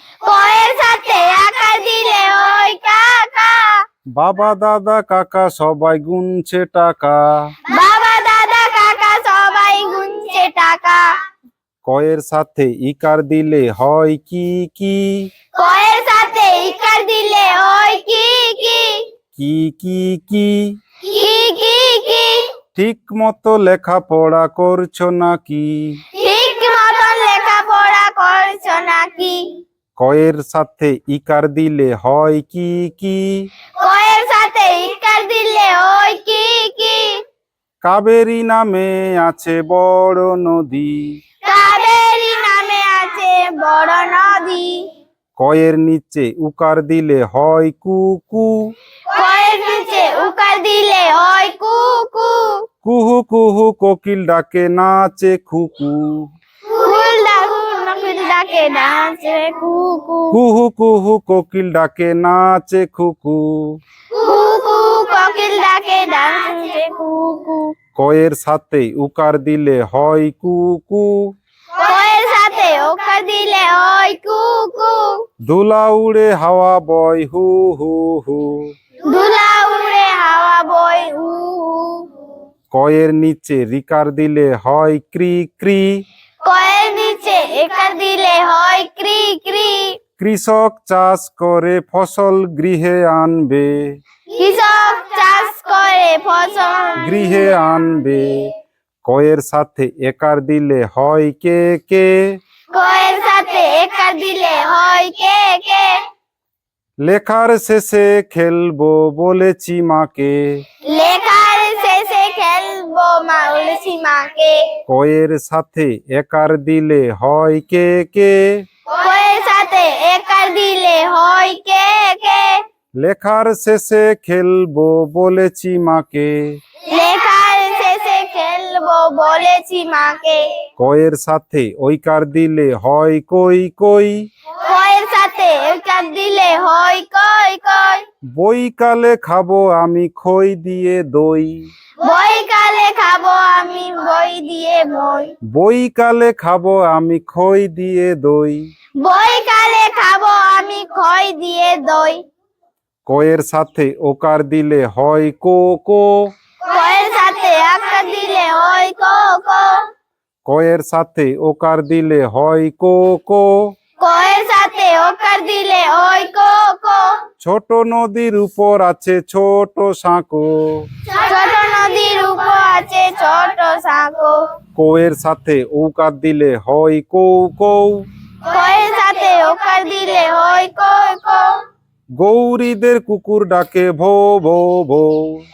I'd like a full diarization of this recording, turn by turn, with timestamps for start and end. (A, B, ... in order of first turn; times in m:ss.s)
0:00.2-0:03.8 A
0:04.2-0:07.5 B
0:07.7-0:11.2 A
0:11.8-0:15.3 B
0:15.6-0:19.1 A
0:19.4-0:20.8 B
0:21.0-0:22.5 A
0:22.8-0:26.0 B
0:26.1-0:29.6 A
0:30.0-0:33.5 B
0:33.8-0:37.2 A
0:37.8-0:41.2 B
0:41.4-0:44.9 A
0:45.4-0:48.7 B
0:49.1-0:52.6 A
0:52.8-0:56.3 B
0:56.7-1:00.4 A
1:00.3-1:03.8 B
1:04.1-1:07.8 A
1:08.0-1:11.3 B
1:11.8-1:15.2 A
1:15.5-1:18.7 B
1:19.0-1:22.3 A
1:22.7-1:26.0 B
1:26.4-1:30.0 A
1:30.2-1:34.0 B
1:34.3-1:37.5 A
1:37.0-1:38.5 B
1:39.0-1:42.2 B
1:42.7-1:46.1 A
1:47.0-1:50.6 B
1:50.9-1:54.8 A
1:54.9-1:58.5 B
1:58.9-2:02.6 A
2:03.0-2:06.6 B
2:06.9-2:10.6 A
2:10.8-2:14.3 B
2:14.6-2:18.0 A
2:18.4-2:21.7 B
2:22.0-2:25.3 A
2:25.5-2:28.6 B
2:29.0-2:32.2 A
2:33.1-2:36.3 B
2:36.6-2:39.9 A
2:40.5-2:43.7 B
2:44.0-2:47.2 A
2:47.4-2:50.9 B
2:51.1-2:54.4 A
2:54.8-2:58.0 B
2:58.4-3:01.6 A
3:02.2-3:05.4 B